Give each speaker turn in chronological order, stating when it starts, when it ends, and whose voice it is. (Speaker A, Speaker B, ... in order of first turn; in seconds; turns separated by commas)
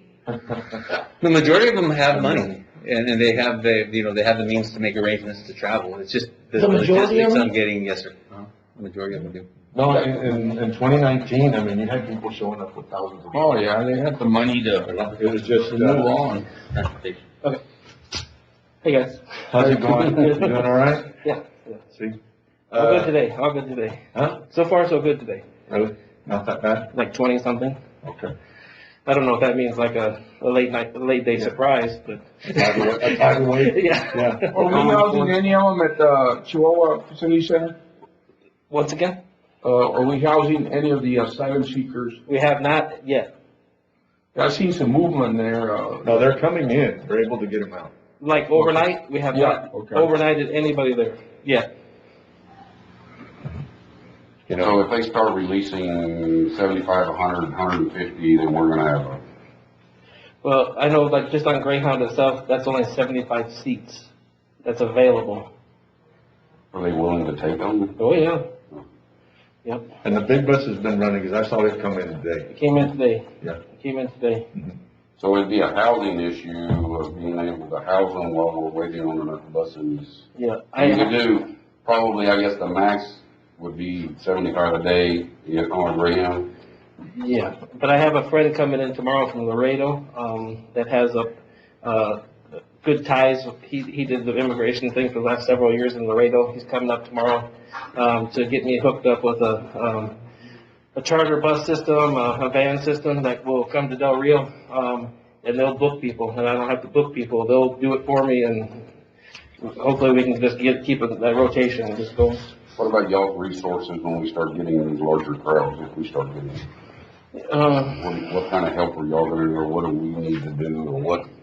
Speaker A: 1.2-9.5, Speaker B: 2.1-2.5, Speaker B: 9.7-13.7, Speaker C: 13.3-14.9, Speaker B: 14.9-16.1, Speaker C: 15.7-16.4, Speaker A: 16.7-17.2, Speaker D: 18.8-20.6, Speaker B: 19.5-21.1, Speaker D: 21.2-21.8, Speaker B: 21.9-22.2, Speaker B: 22.7-23.1, Speaker D: 22.7-25.4, Speaker B: 24.1-24.4, Speaker B: 25.7-26.9, Speaker D: 26.9-27.8, Speaker B: 28.0-28.3, Speaker D: 29.1-34.7, Speaker B: 32.5-35.3, Speaker C: 34.5-37.8, Speaker D: 38.7-39.2, Speaker C: 39.6-42.2, Speaker D: 42.3-43.3, Speaker C: 44.3-46.1, Speaker B: 46.0-47.9, Speaker D: 48.2-51.7, Speaker C: 48.6-50.1, Speaker B: 54.5-54.8, Speaker E: 54.6-59.2, Speaker D: 60.4-64.1, Speaker D: 64.6-65.5, Speaker E: 66.7-68.0, Speaker D: 68.0-68.5, Speaker D: 69.6-69.9, Speaker B: 70.0-72.5, Speaker D: 72.5-74.5, Speaker E: 75.2-86.5, Speaker D: 80.3-81.2, Speaker D: 87.2-92.2, Speaker D: 92.8-100.2, Speaker D: 100.9-108.9, Speaker D: 109.6-112.4, Speaker E: 112.8-116.7, Speaker D: 117.3-118.0, Speaker E: 117.8-121.3